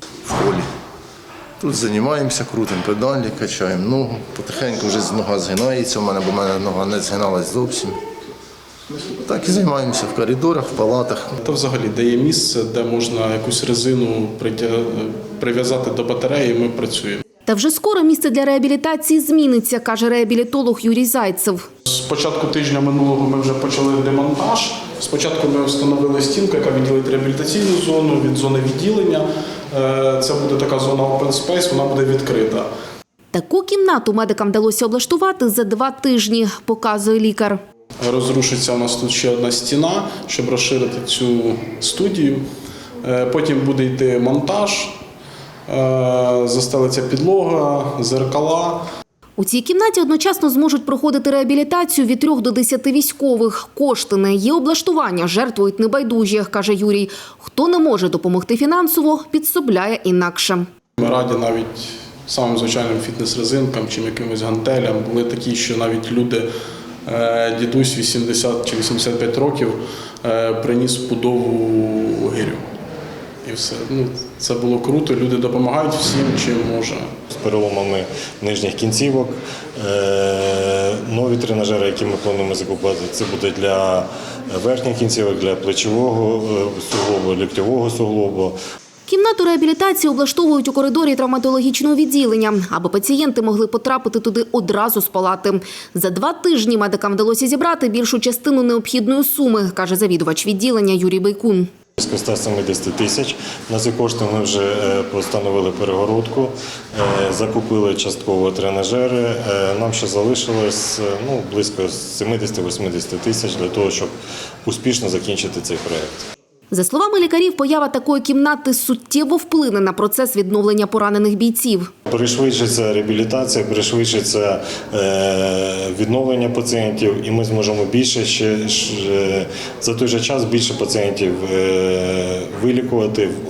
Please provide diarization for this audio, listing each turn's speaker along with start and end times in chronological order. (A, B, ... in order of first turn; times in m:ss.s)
0:00.2-0:00.7 A
0:01.6-0:08.0 A
0:08.9-0:11.4 A
0:11.4-0:17.2 B
0:17.5-0:21.7 C
0:21.9-0:32.7 B
0:33.3-0:37.6 C
0:38.0-0:42.4 B
0:43.0-0:45.0 B
0:45.7-0:48.9 B
0:49.4-1:00.7 C
1:01.0-1:06.5 B
1:07.0-1:12.7 B
1:13.4-1:17.1 B
1:17.3-1:28.6 D
1:29.1-1:41.7 C
1:42.0-1:54.1 D
1:54.6-1:56.3 D
1:56.7-2:01.9 C
2:02.0-2:13.3 D